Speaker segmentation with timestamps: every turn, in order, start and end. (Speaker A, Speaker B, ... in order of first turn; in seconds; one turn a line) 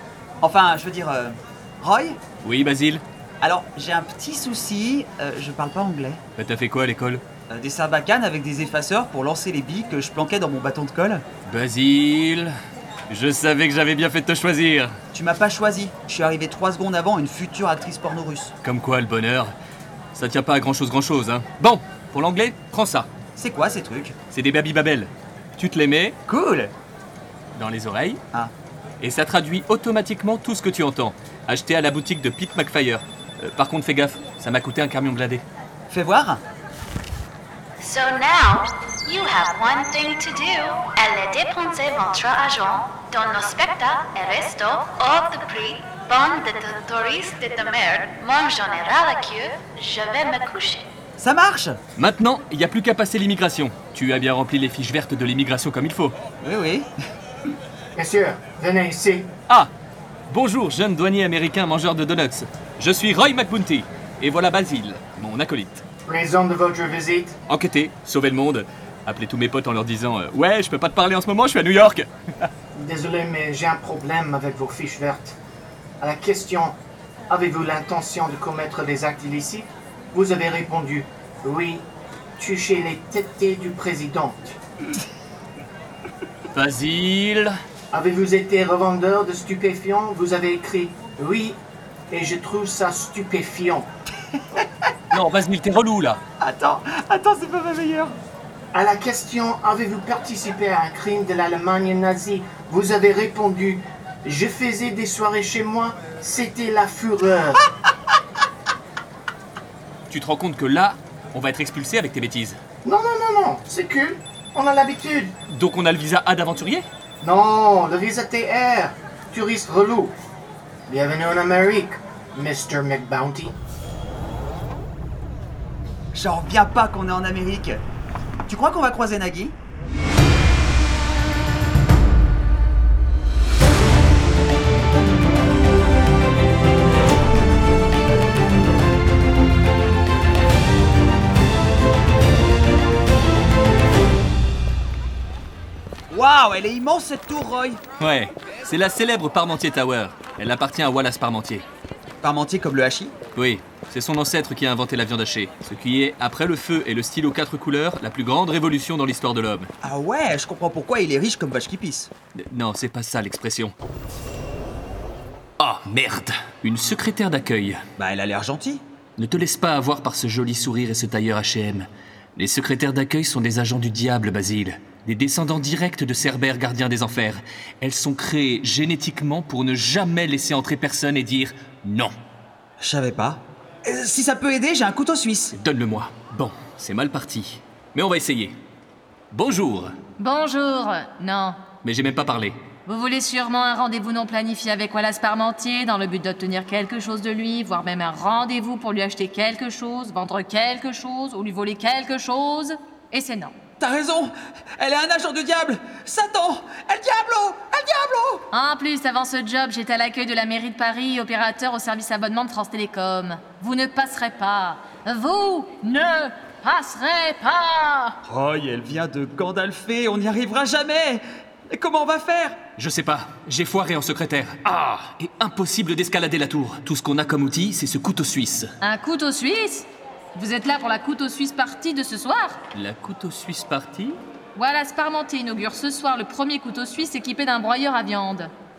Speaker A: 0.4-2.2
Speaker B: 2.4-3.0
Speaker A: 3.4-6.2
Speaker B: 6.4-7.2
Speaker A: 7.5-11.2
Speaker B: 11.5-12.5
Speaker B: 13.1-14.9
Speaker A: 15.1-18.5
Speaker B: 18.6-19.5
Speaker B: 20.1-23.1
Speaker A: 23.4-24.1
Speaker B: 24.3-26.2
Speaker A: 26.3-26.7
Speaker B: 27.5-28.2
Speaker B: 29.0-35.4
Speaker A: 35.9-36.4
Speaker C: 37.8-50.9
Speaker A: 51.2-51.8
Speaker B: 52.0-56.1
Speaker A: 56.4-56.9
Speaker D: 58.0-59.3
Speaker B: 60.3-65.8
Speaker D: 66.1-67.4
Speaker B: 67.5-72.5
Speaker D: 72.8-75.4
Speaker D: 76.0-76.8
Speaker D: 77.3-81.9
Speaker D: 82.4-84.6
Speaker B: 86.5-87.5
Speaker D: 87.9-93.9
Speaker B: 95.1-96.2
Speaker A: 96.4-98.2
Speaker D: 98.7-107.6
Speaker B: 110.1-112.6
Speaker D: 112.8-115.3
Speaker B: 115.5-116.9
Speaker D: 117.2-120.2
Speaker D: 120.9-123.6
Speaker A: 126.1-127.8
Speaker A: 128.5-129.6
Speaker A: 146.1-147.8
Speaker B: 148.0-151.7
Speaker A: 152.2-153.1
Speaker B: 153.3-159.7
Speaker A: 159.8-162.1
Speaker B: 162.3-163.7
Speaker B: 165.6-167.8
Speaker A: 168.0-168.8
Speaker B: 169.2-182.1
Speaker A: 182.8-185.6
Speaker B: 185.6-188.6
Speaker B: 189.3-189.9
Speaker E: 190.2-191.6
Speaker B: 191.8-192.6
Speaker E: 192.9-203.5
Speaker A: 203.8-208.5
Speaker E: 208.5-218.2
Speaker A: 218.2-222.6
Speaker B: 222.8-228.7
Speaker E: 228.8-232.6
Speaker B: 232.7-234.2
Speaker E: 234.6-238.5